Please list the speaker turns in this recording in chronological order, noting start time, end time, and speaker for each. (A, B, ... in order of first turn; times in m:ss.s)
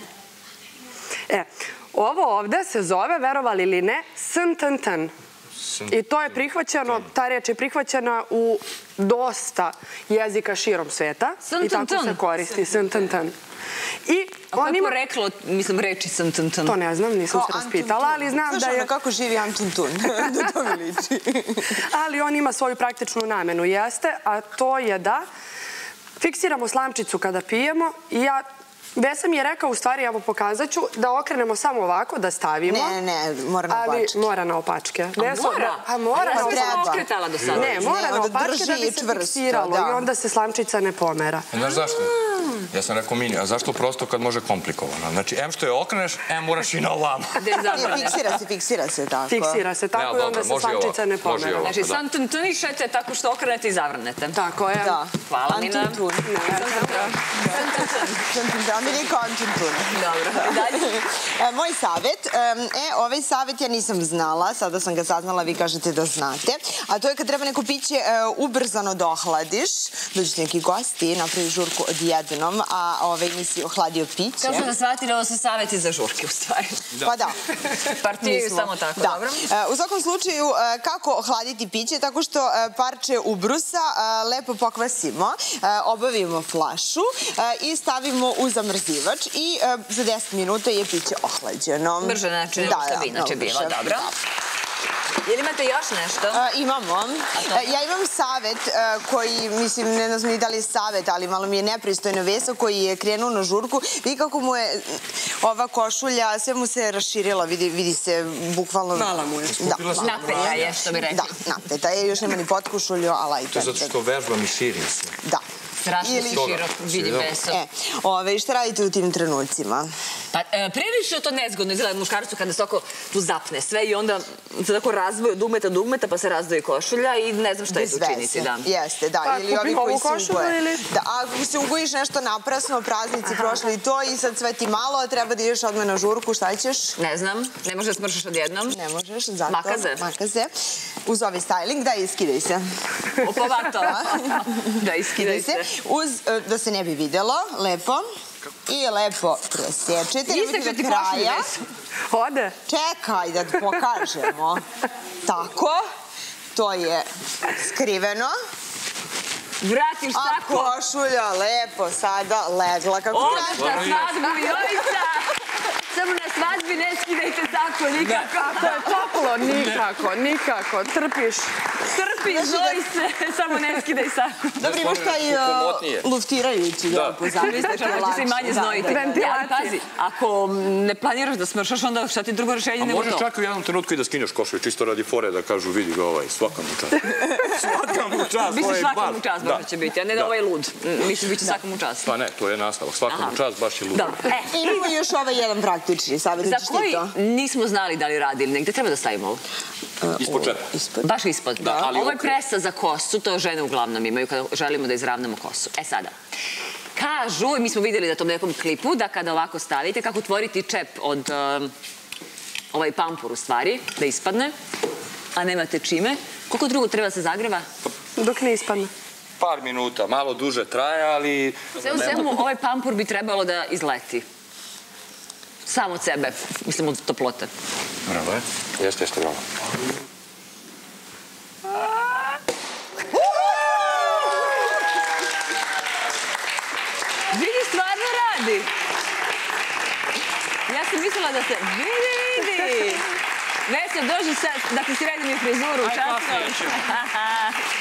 0:01.3-0:05.1 A
0:05.6-0:07.1 B
0:05.9-0:13.3 A
0:11.4-0:12.3 C
0:14.0-0:14.9 A
0:14.5-0:16.8 C
0:16.6-0:18.9 A
0:17.3-0:21.8 D
0:21.8-0:25.2 A
0:26.2-0:28.4 A
0:29.0-0:33.0 A
0:32.6-0:34.2 D
0:33.7-0:37.0 A
0:35.2-0:37.9 C
0:36.3-0:37.0 D
0:37.4-0:37.7 B
0:37.5-0:41.5 A
0:37.6-0:40.1 D
0:41.5-0:47.8 B
0:47.4-0:48.3 C
0:47.7-0:49.6 D
0:49.3-0:51.7 A
0:49.9-0:52.0 B
0:51.6-0:54.4 C
0:54.3-0:55.0 A
0:54.8-0:56.4 D
0:55.2-0:58.3 C
0:56.2-0:57.4 A
0:57.7-1:14.7 D
0:59.9-1:01.0 C
1:14.4-1:16.8 C
1:16.9-1:17.2 B
1:17.0-1:17.3 D
1:17.7-1:19.4 C
1:18.2-1:34.1 D
1:32.0-1:34.1 C
1:35.2-1:36.4 C
1:36.3-1:53.9 D
1:37.3-1:37.8 C
1:49.4-1:50.8 B
1:50.0-1:51.3 C
1:53.5-1:55.2 B
1:55.8-1:57.6 C
1:56.0-1:56.5 D
1:56.2-1:57.3 B
1:57.4-1:59.9 D
2:00.3-2:08.7 C
2:07.7-2:17.0 D
2:09.2-2:10.8 A
2:13.3-2:13.6 A
2:17.0-2:18.8 C
2:18.7-2:20.5 D
2:19.5-2:20.0 C
2:21.0-2:22.6 D
2:23.2-2:25.7 C
2:23.6-2:28.0 D
2:28.6-2:31.5 D
2:30.2-2:31.6 C
2:32.1-2:32.6 A
2:32.7-2:34.6 D
2:35.2-2:35.8 D
2:36.5-2:38.3 D
2:39.6-2:40.7 C
2:40.1-2:44.0 D
2:43.1-2:49.0 C
2:43.1-2:44.3 B
2:48.2-2:51.5 A
2:49.4-2:49.8 B
2:51.8-2:54.6 C
2:52.2-2:52.8 D
2:54.6-2:56.1 B
2:54.6-2:59.1 D
2:56.9-2:57.2 B
2:57.3-3:03.3 C
2:58.8-2:59.8 A
3:02.8-3:10.3 B
3:07.1-3:07.8 D
3:08.4-3:12.1 C
3:12.0-3:14.2 B
3:13.1-3:13.4 C
3:13.9-3:14.9 C
3:14.5-3:17.1 D
3:16.4-3:19.4 C
3:20.0-3:21.1 D
3:20.2-3:20.7 B
3:21.0-3:26.1 C
3:21.6-3:22.3 B
3:26.9-3:31.7 C
3:32.7-3:34.5 C
3:35.3-3:37.6 C
3:38.2-3:38.9 A
3:39.4-3:42.4 B
3:41.8-3:44.3 C
3:45.6-3:47.5 C
3:48.0-3:49.4 B
3:53.3-3:54.5 C
3:57.3-3:58.7 C
4:00.7-4:03.0 C
4:03.6-4:07.6 C
4:05.8-4:06.9 B